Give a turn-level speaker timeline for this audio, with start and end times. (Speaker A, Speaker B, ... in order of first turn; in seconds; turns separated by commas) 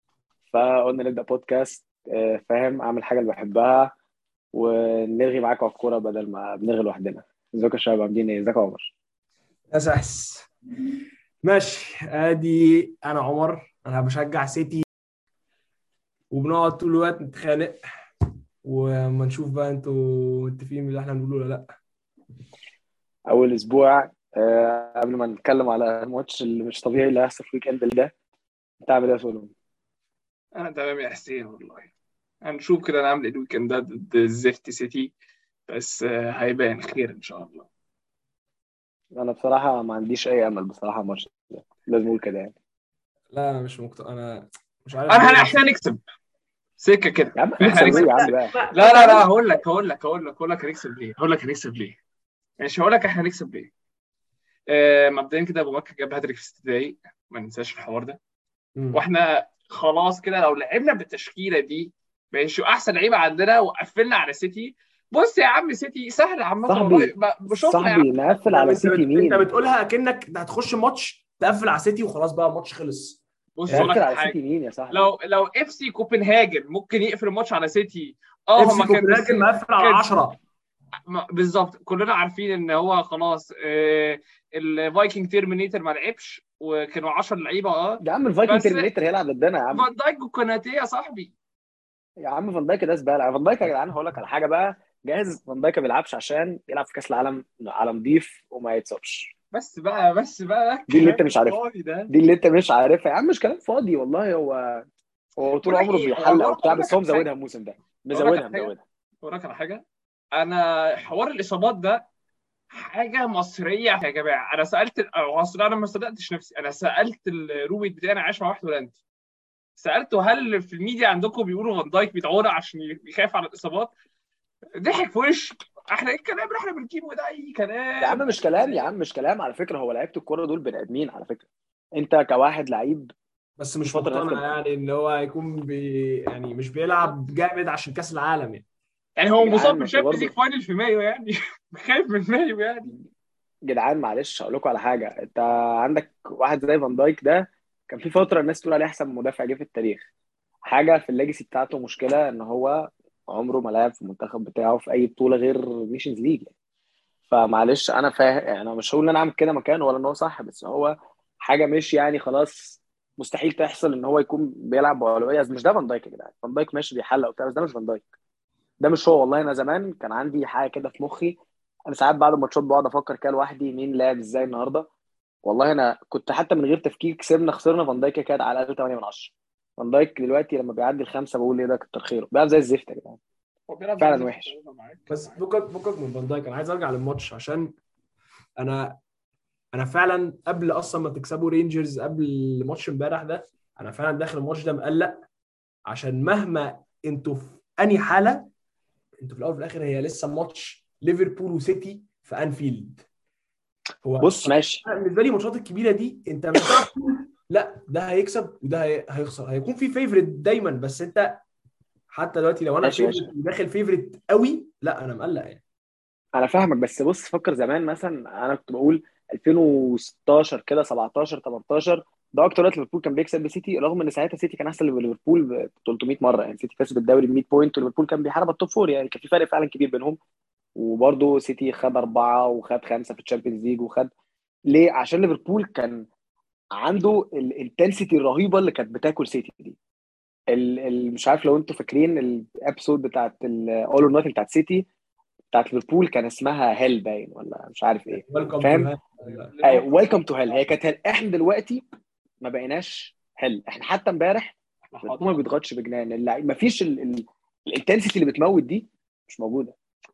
Speaker A: 0.5-3.9, Speaker A: 4.5-8.9, Speaker B: 9.7-10.5, Speaker B: 11.4-14.8, Speaker B: 16.3-17.8, Speaker B: 18.6-21.7, Speaker A: 23.3-28.1, Speaker A: 28.8-29.5, Speaker C: 30.5-31.9, Speaker C: 32.4-35.1, Speaker C: 35.7-37.7, Speaker A: 39.1-42.5, Speaker B: 43.3-45.6, Speaker C: 45.1-46.0, Speaker C: 46.8-52.0, Speaker A: 47.4-48.6, Speaker B: 47.6-49.6, Speaker C: 52.6-53.7, Speaker C: 54.7-58.2, Speaker B: 58.8-59.1, Speaker C: 58.9-68.1, Speaker A: 66.7-69.5, Speaker B: 68.5-73.9, Speaker C: 73.6-74.4, Speaker A: 73.7-75.1, Speaker C: 74.9-80.1, Speaker B: 78.6-80.4, Speaker C: 81.1-88.9, Speaker A: 88.0-89.9, Speaker C: 89.7-91.3, Speaker A: 92.2-99.3, Speaker C: 99.5-102.1, Speaker A: 100.9-104.8, Speaker A: 105.4-108.8, Speaker C: 105.6-107.3, Speaker C: 108.1-112.1, Speaker C: 112.7-119.0, Speaker C: 119.8-123.9, Speaker C: 124.8-128.9, Speaker A: 128.0-133.1, Speaker B: 133.6-138.7, Speaker A: 133.9-134.6, Speaker C: 139.2-142.9, Speaker A: 139.4-140.3, Speaker A: 143.7-150.1, Speaker A: 150.7-156.5, Speaker A: 157.3-168.0, Speaker A: 168.8-171.4, Speaker A: 171.9-174.9, Speaker A: 175.4-183.2, Speaker C: 183.7-185.4, Speaker A: 184.0-184.5, Speaker B: 185.1-187.7, Speaker B: 188.6-189.0, Speaker B: 189.7-195.2, Speaker B: 195.9-198.5, Speaker B: 199.2-203.0, Speaker B: 204.0-211.4, Speaker A: 204.2-204.8, Speaker B: 212.1-215.6, Speaker A: 212.8-213.3, Speaker A: 216.4-230.2, Speaker A: 230.8-234.1, Speaker A: 234.7-236.1, Speaker A: 236.8-239.8, Speaker A: 240.5-244.9, Speaker A: 245.5-248.9, Speaker B: 248.1-249.5, Speaker C: 249.3-250.6, Speaker A: 249.6-251.8, Speaker A: 252.4-259.8, Speaker C: 254.9-255.4